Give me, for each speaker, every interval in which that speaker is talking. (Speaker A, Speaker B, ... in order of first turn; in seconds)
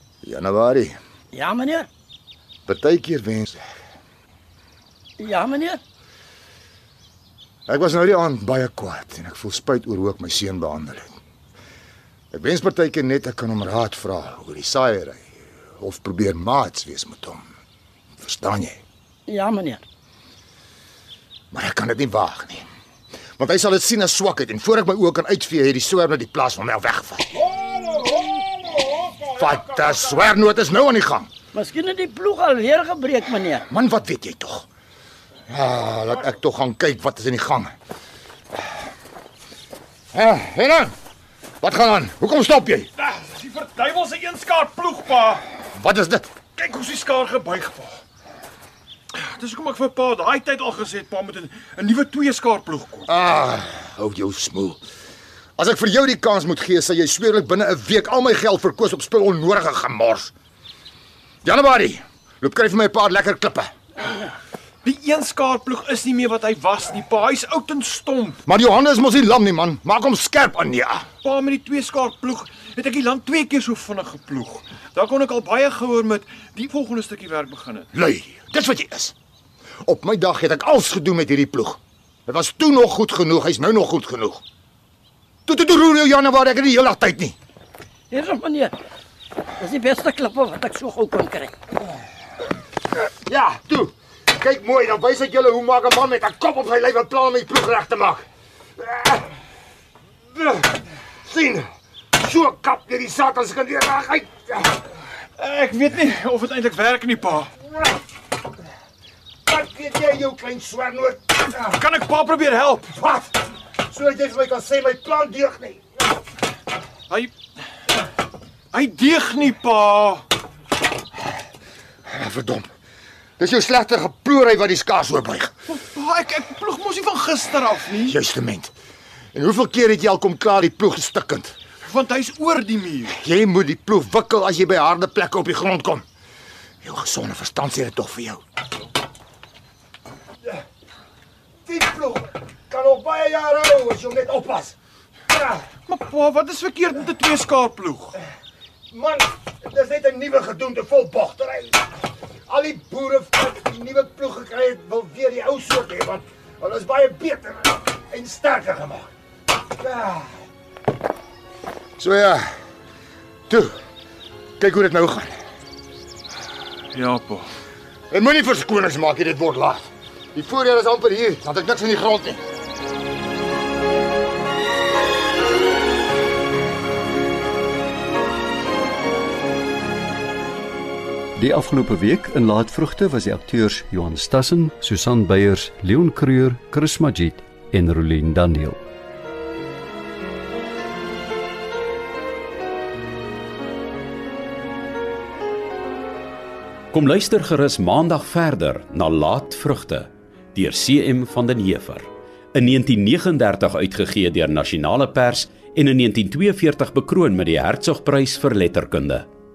Speaker A: 0.2-0.9, 2.6-3.6, 7.7-11.1, 12.3-15.3, 15.8-17.4, 18.2-18.8, 21.5-22.6, 23.4-27.4, 28.9-31.3, 33.7-34.6, 35.5-37.7, 40.1-40.9, 41.6-42.9, 45.8-46.3, 53.1-54.8, 55.6-60.3, 61.4-63.7, 68.5-71.0, 77.9-79.1, 79.8-84.4, 85.5-87.3, 93.3-98.2, 98.8-99.3, 100.3-104.9, 109.5-111.8, 112.9-115.8, 122.1-122.7, 123.4-125.5, 128.0-128.7, 129.3-131.5, 133.1-136.0, 136.8-138.4, 141.7-144.8, 145.3-145.6, 148.9-151.8, 152.5-159.1, 159.8-160.3, 162.0-162.5, 164.6-165.3, 168.1-172.4
Speaker B: 1.3-1.9, 5.2-5.8, 19.3-19.8, 31.5-33.6, 88.1-88.7, 89.6-91.5
Speaker C: 43.0-45.4, 46.5-48.0, 49.1-53.1, 64.8-68.4, 71.2-77.9, 105.4-107.5, 111.8-112.9, 118.7-120.2, 125.8-128.1, 131.8-133.1, 145.9-148.1, 166.9-167.5
Speaker D: 181.4-188.8
Speaker E: 196.9-209.2